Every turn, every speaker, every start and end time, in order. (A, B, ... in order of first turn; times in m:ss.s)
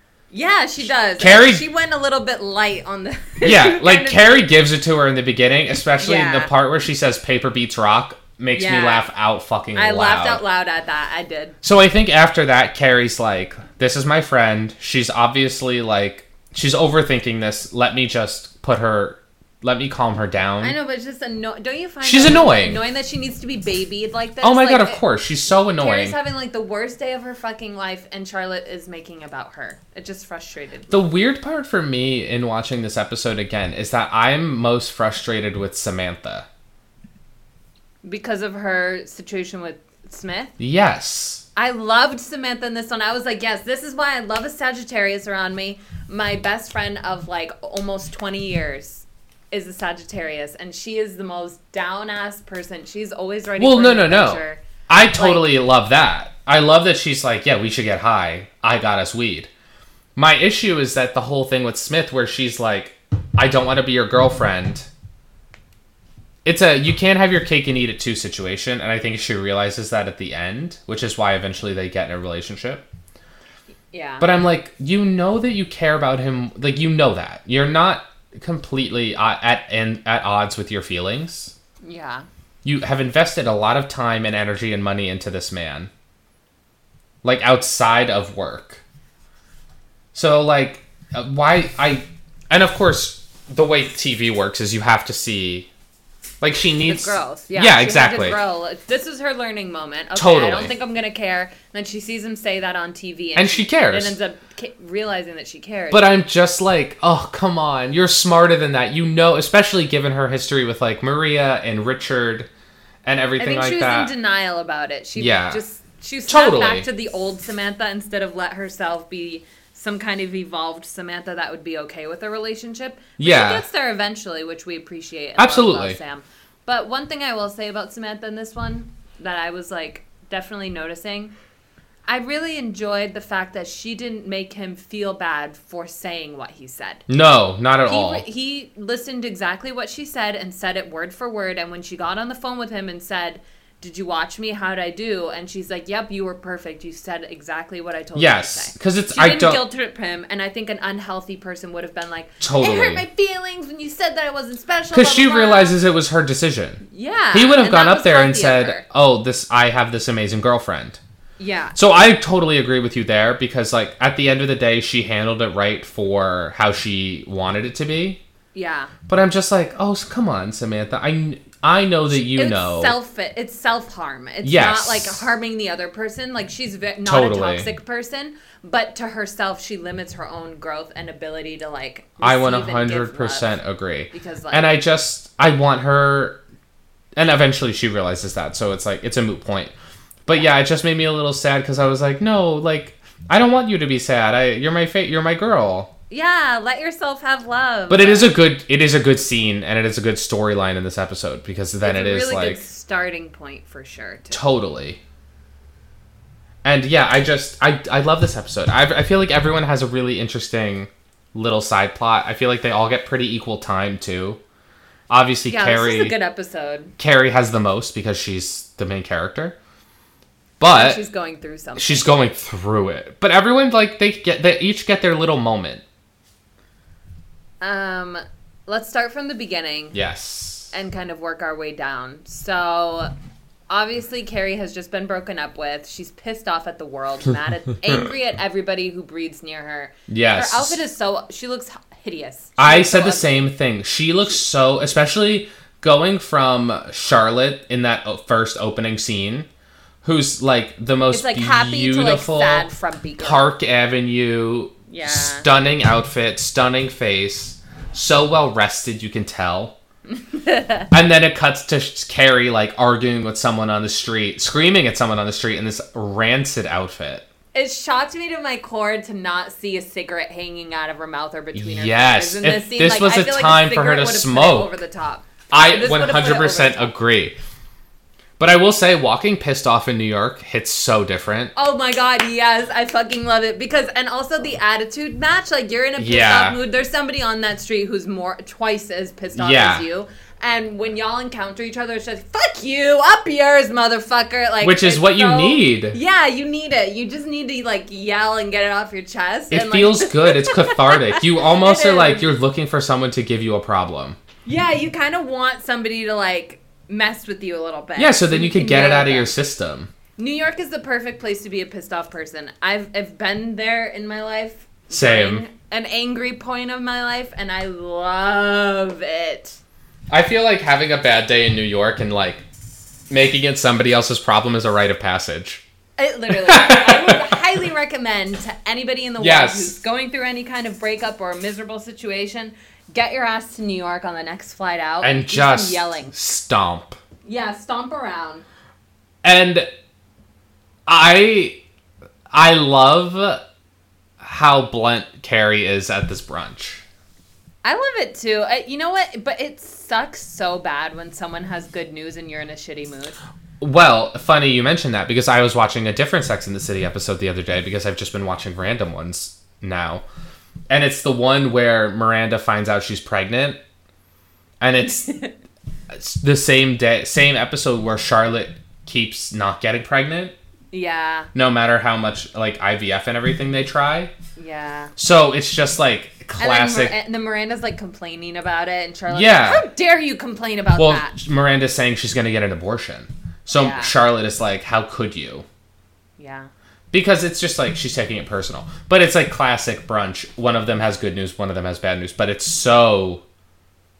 0:00.3-0:04.4 A
0:01.2-0:01.6 B
0:03.4-0:10.4 B
0:06.0-0:06.5 A
0:08.5-0:09.1 A
0:09.7-0:11.6 A
0:11.6-0:20.8 B
0:20.6-0:25.0 A
0:22.0-0:22.8 B
0:24.4-0:26.2 B
0:25.7-0:31.0 A
0:30.9-0:36.5 B
0:38.0-0:40.5 A
0:40.6-0:41.4 B
0:41.6-0:55.5 A
0:53.6-0:59.5 B
1:00.2-1:04.9 B
1:06.4-1:12.8 B
1:13.9-1:14.3 A
1:14.2-1:21.5 B
1:21.8-1:22.3 A
1:22.6-1:25.9 B
1:27.2-1:28.8 B
1:30.1-1:35.7 B
1:36.4-1:38.4 B
1:36.8-1:46.1 A
1:40.1-1:40.7 B
1:43.4-1:44.2 B
1:45.9-1:52.5 B
1:53.0-1:54.1 B
1:53.4-2:11.3 A
1:55.2-1:55.6 B
1:56.3-1:56.9 B
2:03.2-2:03.6 B
2:05.4-2:06.0 B
2:12.0-2:17.0 A
2:17.1-2:18.2 B
2:17.9-2:35.8 A
2:28.1-2:29.6 B
2:32.4-2:33.0 B
2:34.9-2:41.0 B
2:36.8-2:38.8 A
2:41.4-2:41.8 A
2:41.7-2:48.2 B
2:48.5-2:48.9 A
2:49.1-2:52.9 B
2:52.1-3:03.6 A
2:54.4-2:55.2 B
2:57.0-2:57.7 B
3:02.2-3:06.4 B
3:04.1-3:04.8 A
3:07.1-3:09.7 B
3:10.2-3:15.9 B
3:16.1-3:18.4 A
3:17.9-3:22.6 B
3:21.8-3:24.4 A
3:24.3-3:25.0 B
3:26.6-3:34.4 B
3:35.1-3:36.2 B
3:35.5-3:36.9 A
3:37.0-3:39.6 B
3:40.6-3:41.0 B
3:40.7-3:42.2 A
3:41.8-3:45.8 B
3:47.6-3:50.0 A
3:49.9-3:50.7 B
3:50.7-3:53.1 A
3:53.7-4:03.4 A
4:00.1-4:00.8 B
4:02.6-4:09.5 B
4:10.0-4:19.7 B
4:11.1-4:13.5 A
4:14.9-4:15.4 A
4:20.1-4:20.9 A
4:20.9-4:27.2 B
4:27.5-4:36.9 A
4:31.5-4:34.7 B
4:35.5-4:37.4 B
4:38.4-4:41.5 B
4:41.5-5:02.3 A
4:46.0-4:46.6 B
4:49.4-4:49.8 B
4:54.6-4:56.0 B
4:59.5-5:04.2 B
5:04.4-5:09.3 A
5:08.0-5:09.9 B
5:10.2-5:19.6 A
5:14.9-5:15.4 B
5:20.1-5:22.4 B
5:23.1-5:25.6 B
5:26.0-5:36.1 A
5:26.3-5:27.2 B
5:29.2-5:29.8 B
5:35.0-5:37.0 B
5:37.2-5:38.4 A
5:39.2-5:39.7 B
5:40.8-5:41.6 B
5:42.3-5:43.4 B
5:44.2-5:46.8 B
5:47.6-5:53.2 A
5:53.6-6:00.0 B
6:00.7-6:03.6 B
6:04.6-6:05.1 B
6:05.0-6:05.3 A
6:05.9-6:10.3 B
6:10.7-6:11.3 A
6:11.3-6:14.1 B
6:14.4-6:14.9 A
6:15.0-6:16.9 B
6:16.4-6:21.2 A
6:19.1-6:19.7 B
6:20.8-6:25.4 B
6:23.5-6:23.9 A
6:26.2-6:26.5 A
6:26.9-6:33.2 B